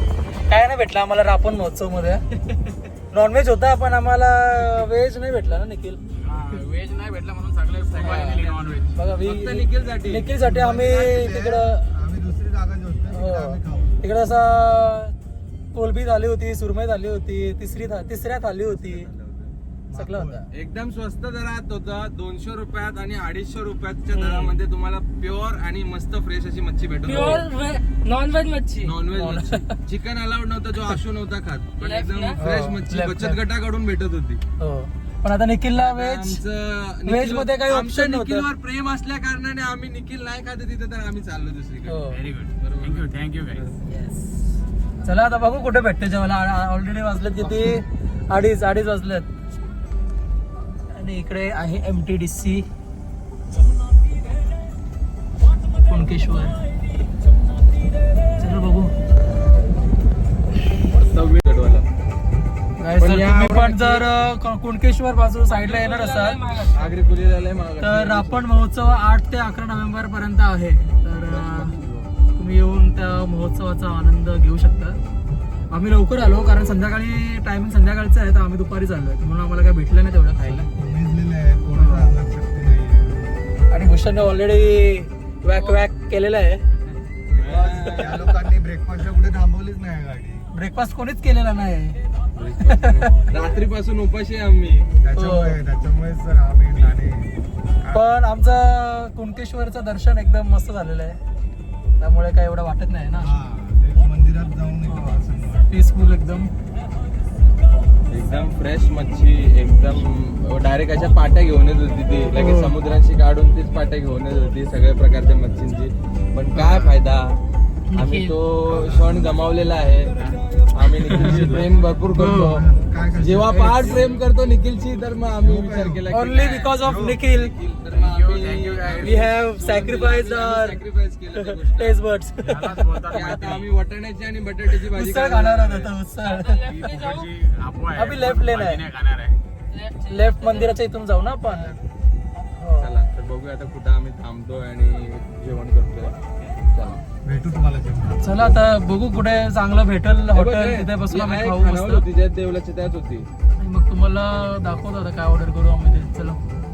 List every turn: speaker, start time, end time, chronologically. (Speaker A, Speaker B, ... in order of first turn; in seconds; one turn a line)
Speaker A: 0.5-2.2
Speaker A: 3.1-6.0
Speaker B: 6.2-8.9
Speaker C: 7.9-10.2
Speaker A: 8.9-11.8
Speaker D: 10.4-14.0
Speaker A: 13.1-15.1
Speaker A: 15.7-19.1
Speaker C: 18.6-19.5
Speaker D: 19.9-20.4
Speaker A: 19.9-20.4
Speaker C: 20.5-27.5
Speaker A: 24.1-24.5
Speaker E: 27.0-28.9
Speaker C: 28.8-34.4
Speaker A: 29.1-29.7
Speaker E: 31.8-32.4
Speaker A: 32.4-33.4
Speaker A: 34.6-36.4
Speaker C: 35.8-42.0
Speaker A: 37.0-38.5
Speaker A: 41.9-42.2
Speaker B: 42.1-43.7
Speaker C: 42.6-43.7
Speaker A: 43.9-44.2
Speaker A: 45.0-49.3
Speaker A: 50.9-52.6
Speaker A: 55.8-56.6
Speaker A: 58.4-58.9
Speaker C: 60.8-61.9
Speaker A: 62.8-66.4
Speaker C: 63.0-64.0
Speaker E: 65.5-66.9
Speaker C: 66.7-68.4
Speaker A: 67.8-71.7
Speaker C: 71.2-72.1
Speaker A: 72.4-75.0
Speaker A: 75.7-80.5
Speaker D: 80.4-83.3
Speaker A: 81.7-82.1
Speaker A: 83.7-86.6
Speaker C: 87.3-88.2
Speaker D: 87.4-90.5
Speaker A: 90.5-92.0
Speaker C: 92.3-94.9
Speaker A: 92.8-93.1
Speaker D: 95.0-97.3
Speaker A: 95.2-95.6
Speaker A: 97.9-101.2
Speaker A: 102.0-103.3
Speaker D: 103.2-105.7
Speaker A: 104.9-106.5
Speaker C: 108.1-117.4
Speaker A: 112.4-112.7
Speaker C: 118.0-120.1
Speaker C: 120.7-122.6
Speaker A: 121.1-121.4
Speaker D: 122.1-123.9
Speaker A: 122.2-122.6
Speaker C: 123.2-132.0
Speaker D: 125.4-126.0
Speaker A: 126.1-127.5
Speaker B: 127.9-129.1
Speaker A: 129.0-130.8
Speaker A: 131.3-132.8
Speaker B: 132.4-133.7
Speaker C: 133.1-135.9
Speaker A: 134.9-136.6
Speaker E: 136.2-137.3
Speaker B: 136.7-139.3
Speaker A: 137.9-138.8
Speaker E: 139.7-140.7
Speaker A: 140.1-141.7
Speaker A: 142.6-142.9
Speaker C: 142.8-146.2
Speaker C: 146.7-147.0
Speaker D: 147.2-148.6
Speaker A: 148.2-152.1
Speaker C: 150.3-153.3
Speaker A: 153.6-156.4